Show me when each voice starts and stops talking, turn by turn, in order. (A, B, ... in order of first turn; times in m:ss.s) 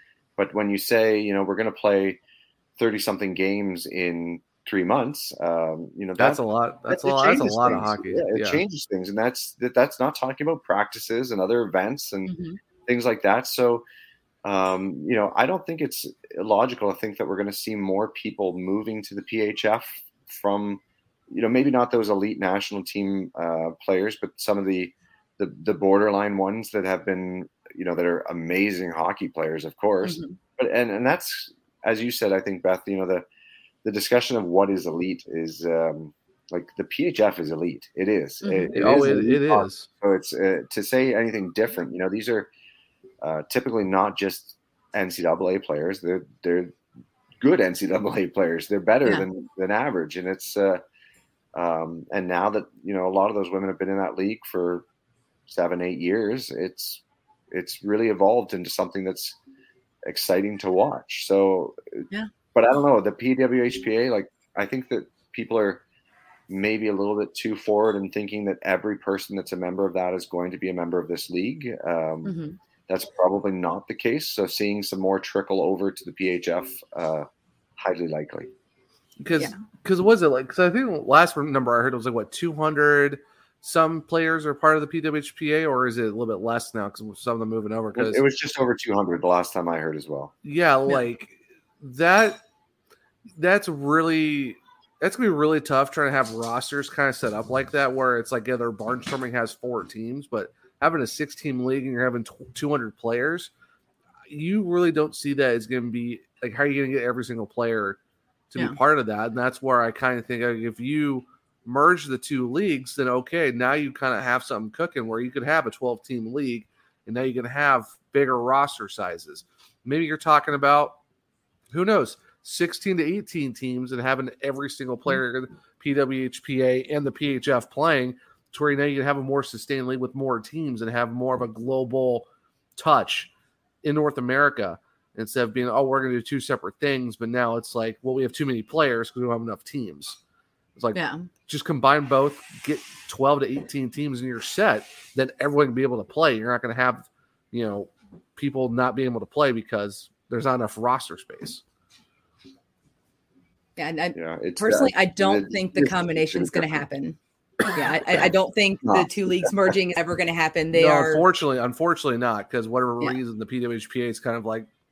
0:00.4-0:02.2 A
0:02.8-0:12.3 A
0:06.2-0:08.6 B
0:12.3-0:12.6 C
0:12.8-0:13.8 A
0:14.4-0:33.2 A
0:30.0-0:30.4 C
0:33.8-0:42.5 A
0:38.4-0:38.7 C
0:38.7-0:39.9 B
0:43.2-0:46.7 A
0:47.4-0:50.8 A
0:51.5-0:54.8 A
0:55.5-0:59.4 A
1:00.0-1:01.8 A
1:02.5-1:05.8 A
1:06.5-1:12.4 A
1:12.2-1:12.6 C
1:12.9-1:18.5 A
1:19.2-1:28.2 B
1:27.9-1:30.3 A
1:30.4-1:32.4 B
1:33.3-1:43.5 B
1:44.3-1:48.0 B
1:48.5-2:01.0 B
2:01.7-2:13.3 B
2:13.8-2:20.2 B
2:20.8-2:31.6 B
2:20.9-2:21.3 C
2:33.8-2:37.2 C
2:34.1-2:36.8 A
2:37.7-2:41.2 C
2:38.8-2:39.1 A
2:40.7-2:44.7 B